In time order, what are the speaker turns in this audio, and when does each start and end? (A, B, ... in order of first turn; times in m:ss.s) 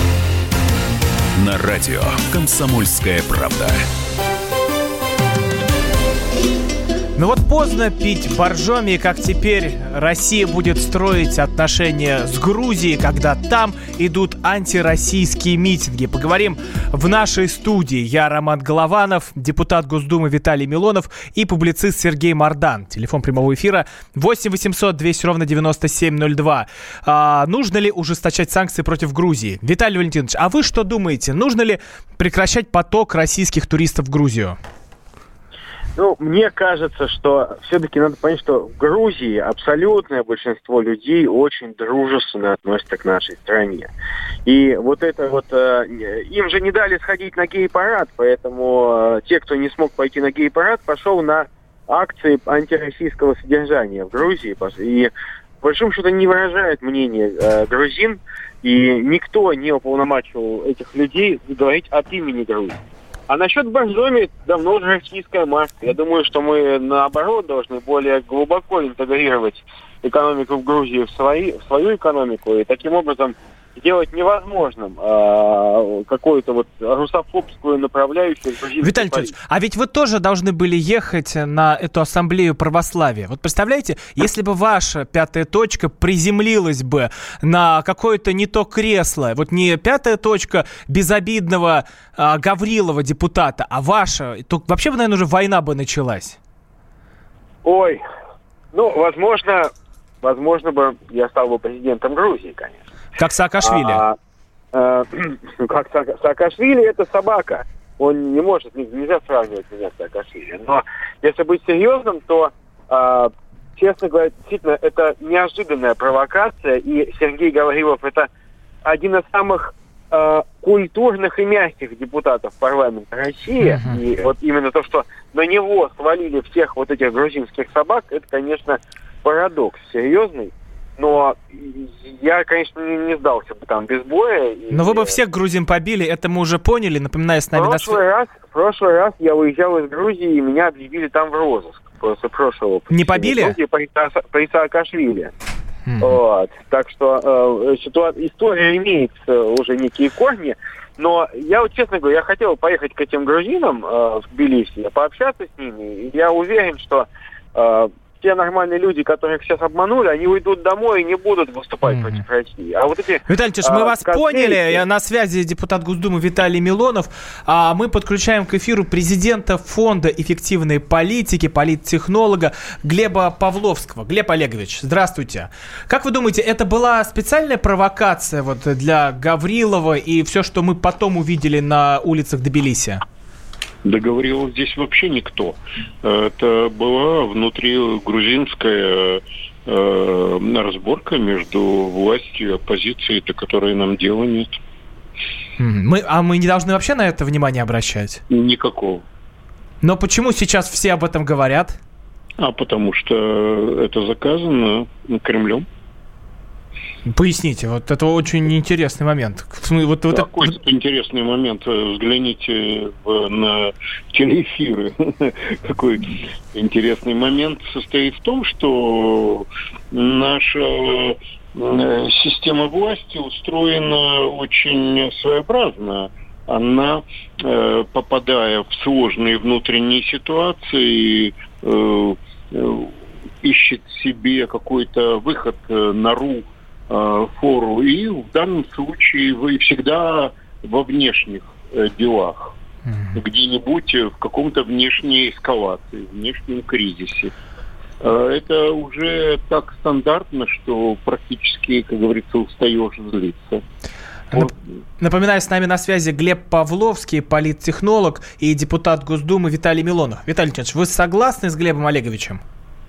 0:01.4-0:03.8 A
0:07.2-0:34.6 B
0:36.0-0:43.9 C
0:44.5-0:55.1 C
0:55.6-1:19.3 C
1:18.8-1:36.4 B
1:37.6-1:38.0 C
1:38.7-1:39.7 C
1:40.2-1:42.8 C
1:43.2-1:44.0 B
1:43.6-1:44.2 C
1:44.7-1:58.3 C
1:58.8-2:15.1 C
2:03.6-2:04.0 B
2:14.7-2:18.0 B
2:17.5-2:25.3 C
2:22.9-2:23.6 B
2:25.9-2:26.2 B
2:26.0-2:44.8 C
2:41.9-2:42.2 B
2:43.3-3:03.0 B
3:03.8-3:14.5 D
3:15.6-3:18.2 B
3:18.3-3:19.0 D
3:19.8-3:21.8 B
3:22.4-3:25.7 D
3:27.1-3:30.6 B
3:30.1-4:02.5 D
4:02.9-4:03.2 B
4:03.2-4:07.3 D
4:08.0-4:13.6 D
4:14.3-4:22.4 B